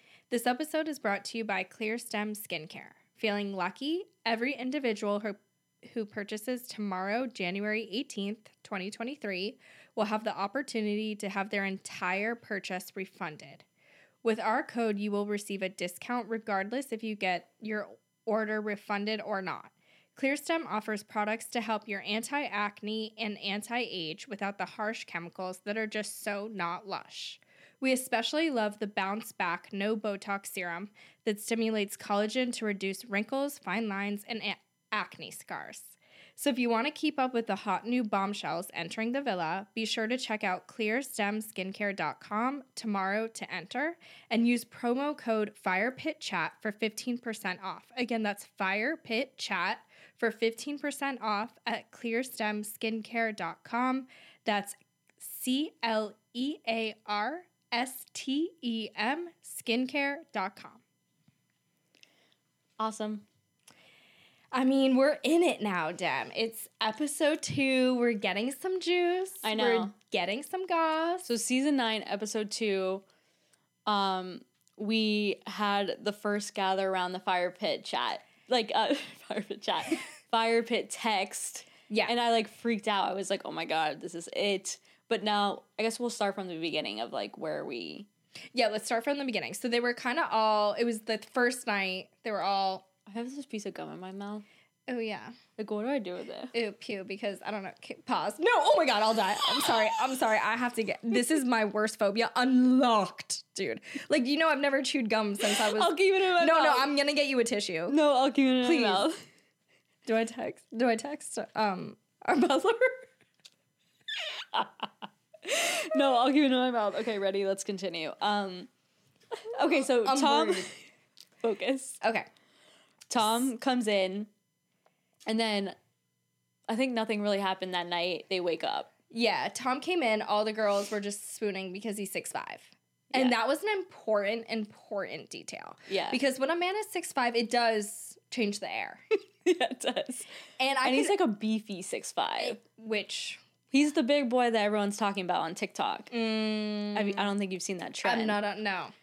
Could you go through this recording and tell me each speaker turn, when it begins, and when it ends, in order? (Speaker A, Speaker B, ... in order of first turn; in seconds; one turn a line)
Speaker A: 0.3-13.7
Speaker A: 14.2-60.8
Speaker B: 62.8-63.2
Speaker A: 64.5-71.3
Speaker B: 69.4-69.9
Speaker B: 71.2-73.0
Speaker B: 73.9-88.1
Speaker A: 81.9-82.1
Speaker A: 88.5-92.9
Speaker B: 93.1-94.5
Speaker A: 94.9-95.3
Speaker B: 95.6-96.5
Speaker A: 96.5-108.0
Speaker B: 105.4-106.9
Speaker B: 107.9-109.2
Speaker A: 108.6-109.1
Speaker A: 110.1-113.0
Speaker B: 114.5-114.9
Speaker B: 115.4-118.7
Speaker B: 119.4-120.7
Speaker A: 120.0-120.7
Speaker B: 121.4-122.0
Speaker A: 122.0-122.3
Speaker B: 123.1-124.3
Speaker B: 125.3-125.8
Speaker B: 126.7-128.9
Speaker A: 129.1-139.0
Speaker B: 135.9-136.2
Speaker B: 139.4-140.3
Speaker A: 140.6-141.2
Speaker B: 140.8-142.6
Speaker A: 142.4-143.4
Speaker B: 143.7-146.1
Speaker A: 146.1-147.3
Speaker B: 146.9-148.4
Speaker A: 148.0-148.9